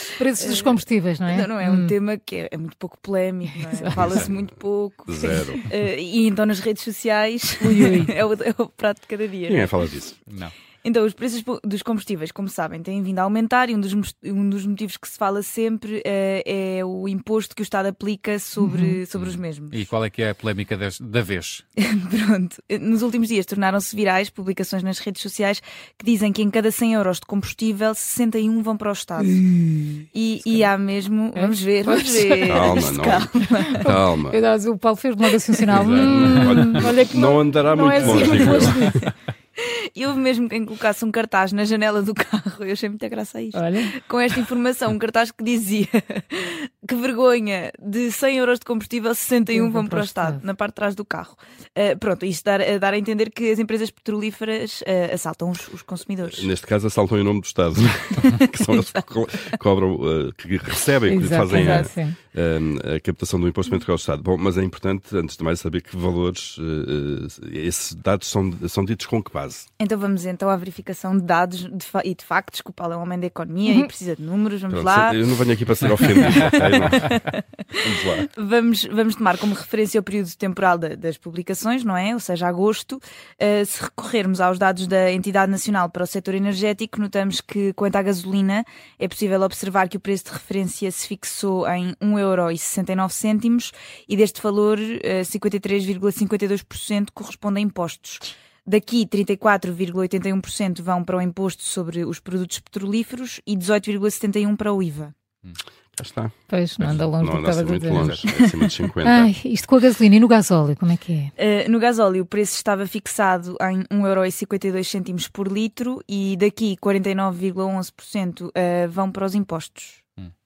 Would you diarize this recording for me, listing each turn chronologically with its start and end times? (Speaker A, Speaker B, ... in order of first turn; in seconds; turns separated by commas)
Speaker A: 0.2-1.9, Speaker B: 0.4-9.8, Speaker A: 3.5-4.0, Speaker C: 3.9-4.3, Speaker D: 5.1-5.7, Speaker A: 7.6-8.1, Speaker D: 9.5-10.2, Speaker C: 10.3-10.5, Speaker B: 10.8-19.9, Speaker A: 18.6-19.0, Speaker C: 19.1-21.6, Speaker B: 21.8-29.4, Speaker A: 29.4-29.9, Speaker B: 30.1-33.7, Speaker A: 31.4-32.8, Speaker D: 32.4-34.4, Speaker A: 33.7-39.0, Speaker C: 35.7-36.7, Speaker D: 35.7-39.0, Speaker B: 36.8-37.2, Speaker B: 37.9-38.8, Speaker B: 39.6-56.5, Speaker A: 43.5-43.9, Speaker A: 49.5-50.4, Speaker D: 56.2-69.7, Speaker B: 58.3-59.0, Speaker A: 61.1-62.2, Speaker B: 61.1-61.9, Speaker B: 69.8-75.2, Speaker D: 74.7-77.2, Speaker B: 76.1-105.1, Speaker D: 77.8-78.3, Speaker D: 106.0-109.3, Speaker A: 106.5-108.2, Speaker B: 108.3-108.7, Speaker A: 109.0-111.3, Speaker B: 111.4-120.0